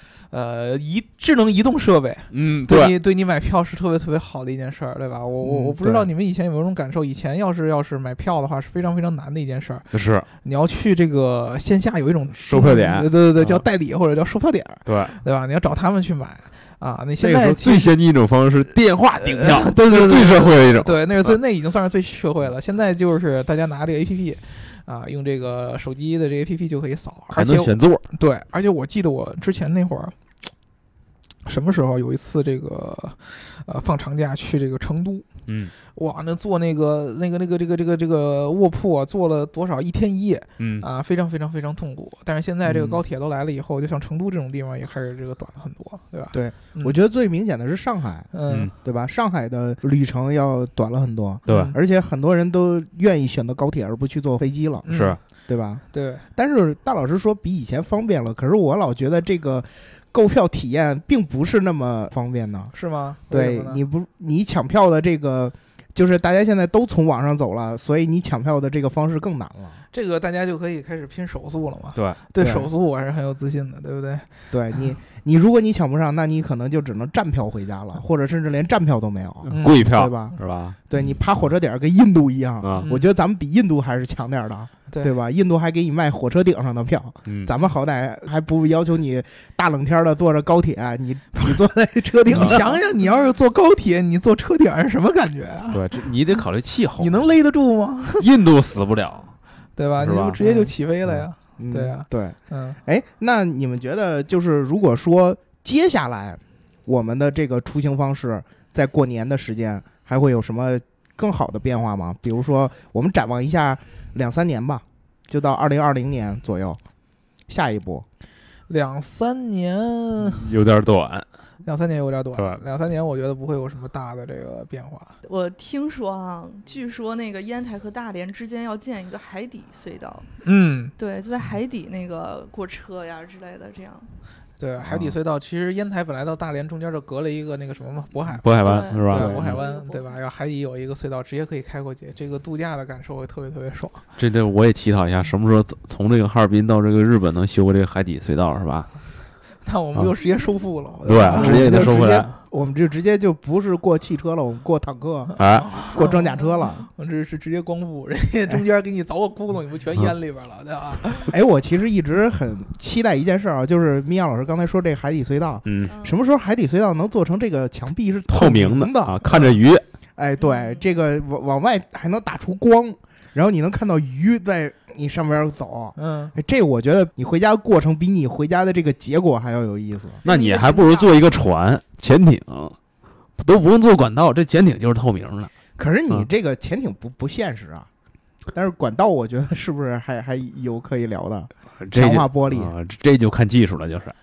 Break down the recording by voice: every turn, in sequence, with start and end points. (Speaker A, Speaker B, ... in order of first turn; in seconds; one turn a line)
Speaker A: 0.2-9.9
Speaker B: 2.3-2.9
Speaker C: 5.4-6.0
Speaker B: 9.9-10.2
Speaker A: 10.4-17.9
Speaker B: 12.3-13.6
Speaker B: 14.8-15.2
Speaker B: 17.2-21.4
Speaker A: 19.2-30.1
Speaker B: 27.3-28.0
Speaker A: 31.4-35.3
Speaker B: 35.5-35.7
Speaker A: 35.9-47.0
Speaker B: 40.6-40.9
Speaker C: 42.6-43.0
Speaker C: 46.3-54.9
Speaker A: 48.3-48.7
Speaker A: 51.5-51.8
Speaker B: 51.5-51.7
Speaker A: 54.8-55.2
Speaker B: 54.9-55.2
Speaker C: 55.5-55.8
Speaker A: 55.9-56.2
Speaker C: 56.3-62.7
Speaker A: 62.7-63.8
Speaker C: 63.3-69.8
Speaker A: 69.9-74.3
Speaker C: 72.4-72.7
Speaker C: 74.5-80.3
Speaker B: 79.5-80.8
Speaker A: 79.5-79.9
Speaker C: 80.9-92.7
Speaker A: 82.7-83.1
Speaker B: 87.2-87.5
Speaker A: 92.2-96.0
Speaker B: 95.7-97.2
Speaker A: 97.0-98.2
Speaker B: 98.2-99.3
Speaker A: 99.8-102.8
Speaker B: 100.0-100.4
Speaker C: 100.4-100.7
Speaker C: 101.6-116.8
Speaker C: 117.5-118.0
Speaker A: 118.7-120.5
Speaker B: 120.2-121.2
Speaker A: 121.6-125.2
Speaker B: 122.3-122.6
Speaker D: 125.2-130.3
Speaker A: 130.4-130.9
Speaker D: 131.0-134.1
Speaker A: 134.6-144.0
Speaker C: 134.8-135.1
Speaker B: 138.4-139.6
Speaker D: 138.6-140.1
Speaker C: 139.1-139.5
Speaker B: 144.2-148.9
Speaker A: 149.6-151.9
Speaker B: 151.0-152.3
Speaker C: 151.3-156.8
Speaker A: 155.4-156.3
Speaker B: 155.4-155.7
Speaker A: 156.9-161.3
Speaker C: 161.3-169.2
Speaker B: 165.7-165.9
Speaker D: 165.9-166.2
Speaker B: 168.3-169.8
Speaker A: 169.2-169.6
Speaker C: 170.2-180.2
Speaker D: 170.4-170.8
Speaker A: 175.9-176.3
Speaker B: 180.2-182.8
Speaker D: 180.2-181.2
Speaker B: 183.4-185.5
Speaker C: 185.8-187.9
Speaker C: 188.5-192.7
Speaker B: 191.8-194.1